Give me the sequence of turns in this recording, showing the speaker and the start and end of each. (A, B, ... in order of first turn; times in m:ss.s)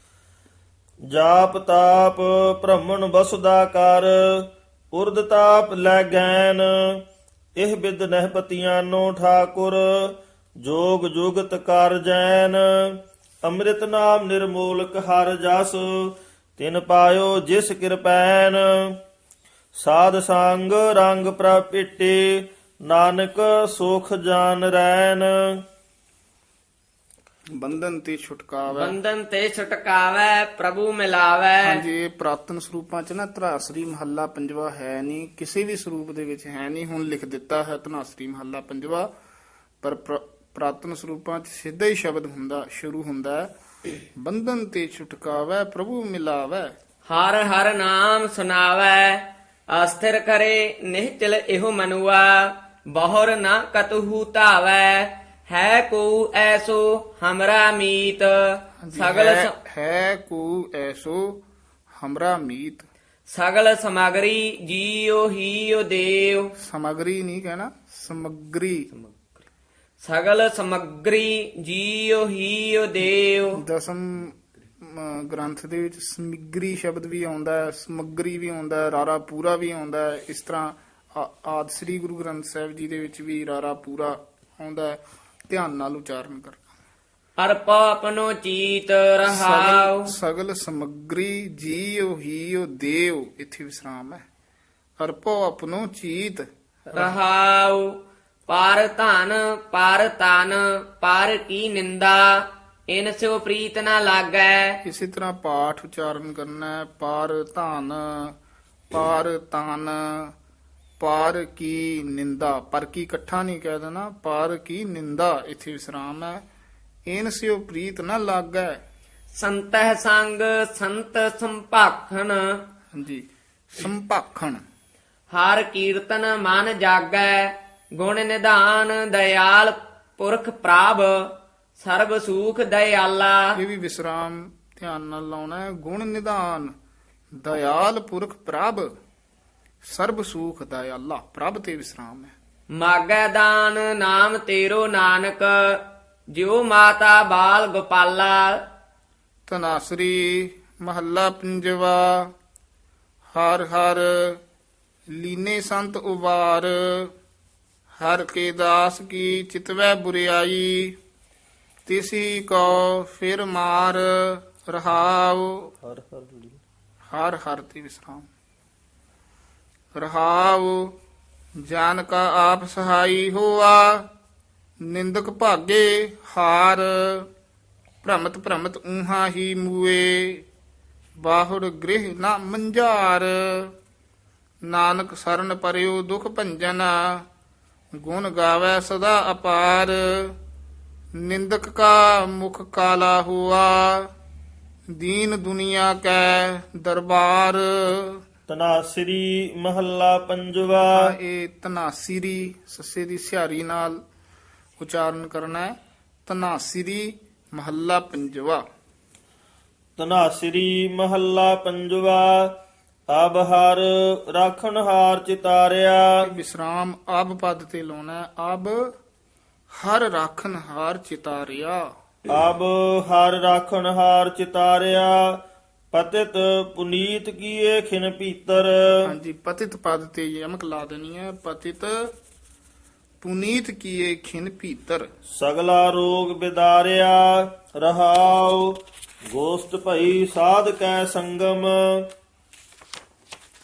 0:01.1-0:07.0 A
0:07.6-0:19.0 A
0:19.8-0:25.6 A
0:27.5-0:29.0 B
0:28.7-0:31.8 C
0:31.6-0:39.1 B
0:39.8-0:43.5 B
0:44.2-0:46.7 B
0:47.1-0:59.5 C
0:58.8-1:01.4 B
1:01.9-1:02.8 B
1:03.3-1:06.5 C
1:06.6-1:08.9 B
1:10.0-1:13.6 C
1:13.5-1:26.6 B
1:27.4-1:30.1 C
1:29.3-1:34.2 B
1:35.0-1:37.2 B
1:36.9-1:38.0 C
1:38.5-1:44.8 C
1:44.8-1:48.3 B
1:48.9-1:50.3 B
1:51.0-1:56.4 B
1:57.1-1:58.8 B
1:59.4-2:02.6 C
2:02.9-2:04.6 B
2:05.3-2:13.6 C
2:13.5-2:16.7 B
2:17.4-2:18.9 B
2:19.8-2:22.3 B
2:22.8-2:28.6 C
2:29.5-2:32.3 B
2:33.3-2:34.4 B
2:35.1-2:37.1 B
2:38.0-2:41.0 B
2:41.8-2:45.7 B
2:45.8-2:46.6 A
2:47.1-2:48.3 B
2:49.9-2:50.9 B
2:51.6-2:54.1 B
2:54.8-2:57.3 B
2:58.0-3:00.4 B
3:01.2-3:03.7 B
3:04.7-3:07.3 B
3:07.9-3:10.4 B
3:11.1-3:14.1 B
3:15.0-3:18.2 B
3:18.5-3:21.1 A
3:20.9-3:24.0 B
3:24.8-3:28.6 B
3:30.0-3:32.5 A
3:33.1-3:36.3 A
3:36.2-3:38.9 B
3:39.7-3:41.9 B
3:42.3-3:49.1 A
3:49.0-3:52.1 B
3:53.2-3:55.1 B
3:55.3-4:02.1 A